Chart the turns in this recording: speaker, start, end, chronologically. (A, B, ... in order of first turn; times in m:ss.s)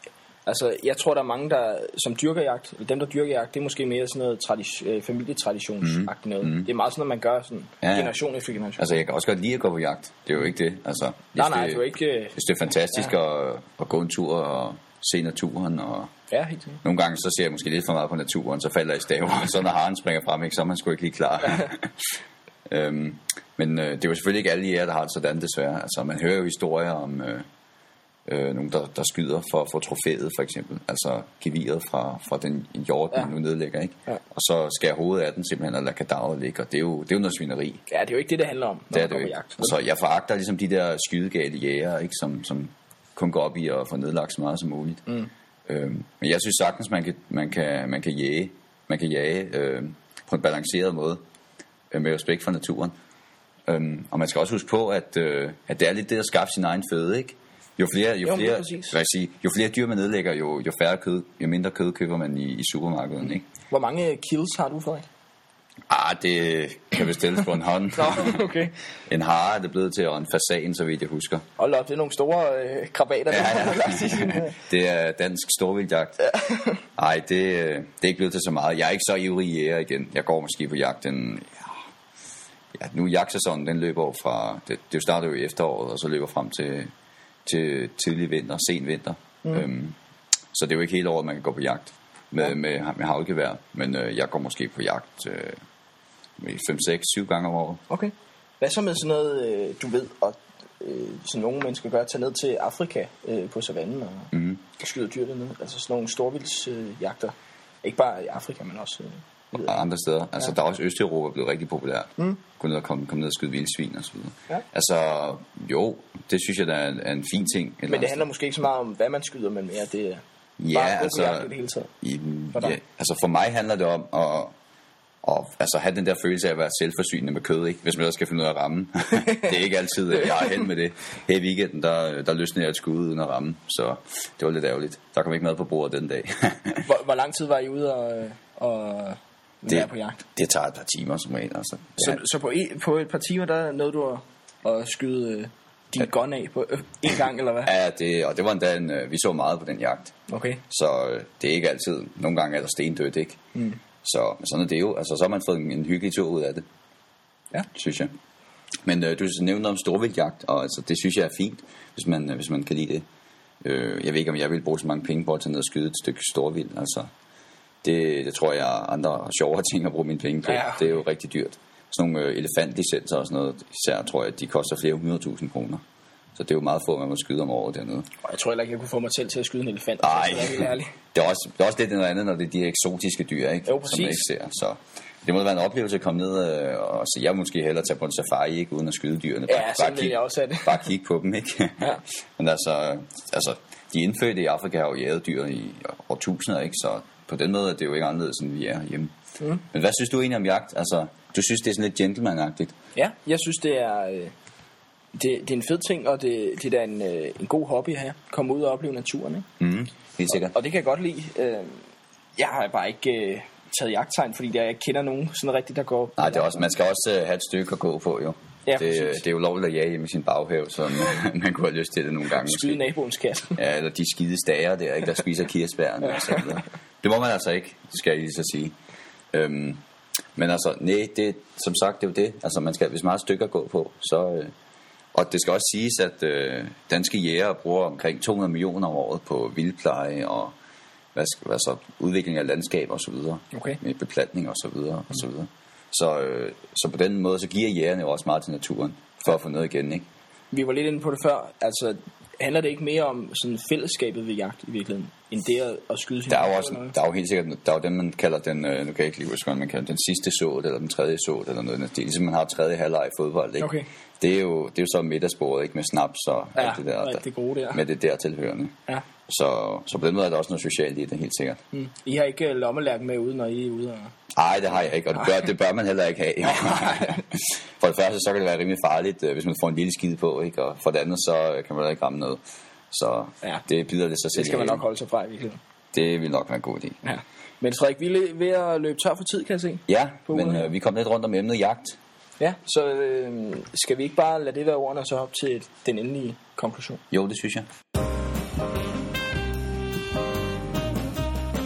0:00.4-0:08.8 A
0:05.8-0:06.7 B
0:07.8-0:08.1 B
0:08.8-0:16.1 B
0:11.4-0:12.4 A
0:16.3-0:16.8 A
0:16.8-0:22.1 B
0:22.7-0:27.4 B
0:28.2-0:37.8 B
0:37.9-0:39.7 A
0:38.9-0:45.0 B
0:45.7-0:51.2 B
0:51.9-0:52.9 B
0:53.7-1:03.4 B
0:58.2-0:58.9 A
1:03.7-1:05.1 A
1:05.9-1:08.4 B
1:07.9-1:08.7 A
1:09.1-1:11.4 B
1:11.6-1:14.5 A
1:13.3-1:16.2 B
1:16.3-1:16.8 A
1:17.0-1:21.8 B
1:22.7-1:26.9 B
1:27.4-1:29.9 B
1:30.5-1:35.6 B
1:36.4-1:37.8 B
1:37.9-1:49.7 A
1:44.3-1:44.6 B
1:49.5-1:58.2 B
1:57.9-2:00.2 A
2:00.6-2:01.5 B
2:00.7-2:01.9 A
2:02.0-2:04.5 B
2:05.2-2:16.8 B
2:16.8-2:20.2 A
2:19.7-2:22.2 B
2:22.0-2:27.7 A
2:27.6-2:30.1 B
2:30.3-2:30.6 A
2:30.7-2:33.4 B
2:34.0-2:36.6 B
2:37.7-2:38.1 B
2:38.8-2:43.0 B
2:43.6-2:47.1 B
2:47.8-2:55.8 B
2:50.4-2:51.0 A
2:56.3-2:58.1 B
2:58.2-3:00.9 A
3:00.0-3:19.1 B
3:03.7-3:04.2 A
3:09.5-3:10.8 A
3:19.7-3:22.8 B
3:23.0-3:24.3 A
3:25.1-3:29.4 A
3:29.6-3:30.5 B
3:30.4-3:31.8 A
3:32.4-3:36.4 A
3:36.2-3:42.8 B
3:38.6-3:39.2 A
3:42.4-3:43.6 A
3:43.6-3:48.7 B
3:49.3-3:49.8 B
3:50.4-3:54.5 B
3:55.1-4:00.5 B
4:01.1-4:10.0 B
4:03.5-4:03.8 A
4:10.5-4:17.0 A
4:16.3-4:27.2 B
4:23.6-4:23.9 A
4:26.6-4:27.8 A
4:27.7-4:31.6 B
4:31.7-4:34.1 A
4:34.3-4:44.8 B
4:36.6-4:37.2 A
4:44.3-4:45.6 A
4:45.9-4:47.0 B
4:47.0-4:50.7 A
4:49.9-4:52.0 B
4:52.4-4:57.0 A
4:57.1-4:57.7 B